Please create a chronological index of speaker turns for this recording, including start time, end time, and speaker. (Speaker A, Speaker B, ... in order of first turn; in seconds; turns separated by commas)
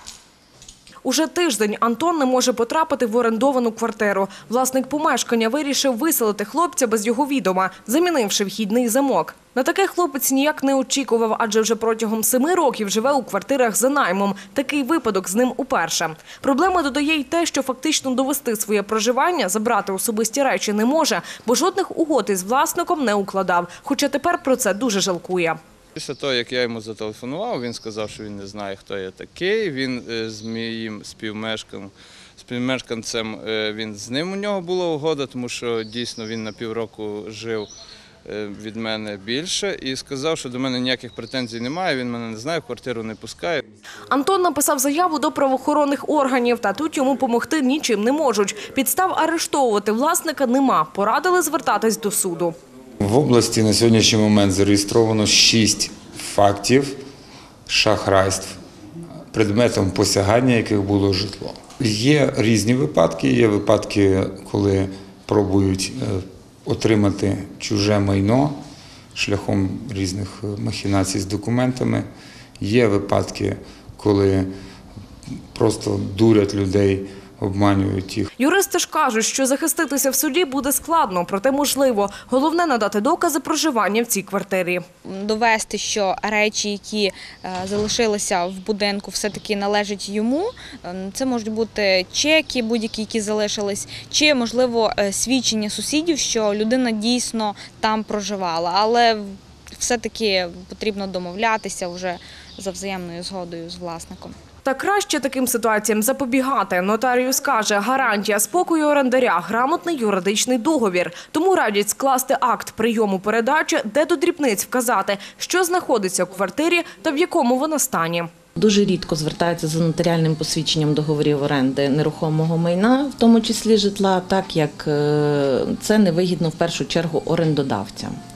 Speaker A: 1.0-25.6, Speaker B: 25.9-37.7, Speaker B: 38.3-43.6, Speaker A: 44.1-52.5, Speaker C: 53.0-57.0, Speaker C: 57.7-58.6, Speaker C: 59.3-68.6, Speaker C: 69.2-72.1, Speaker C: 72.6-74.5, Speaker C: 75.5-78.3, Speaker A: 78.4-84.8, Speaker D: 85.1-104.3, Speaker A: 104.7-118.3, Speaker E: 118.6-128.2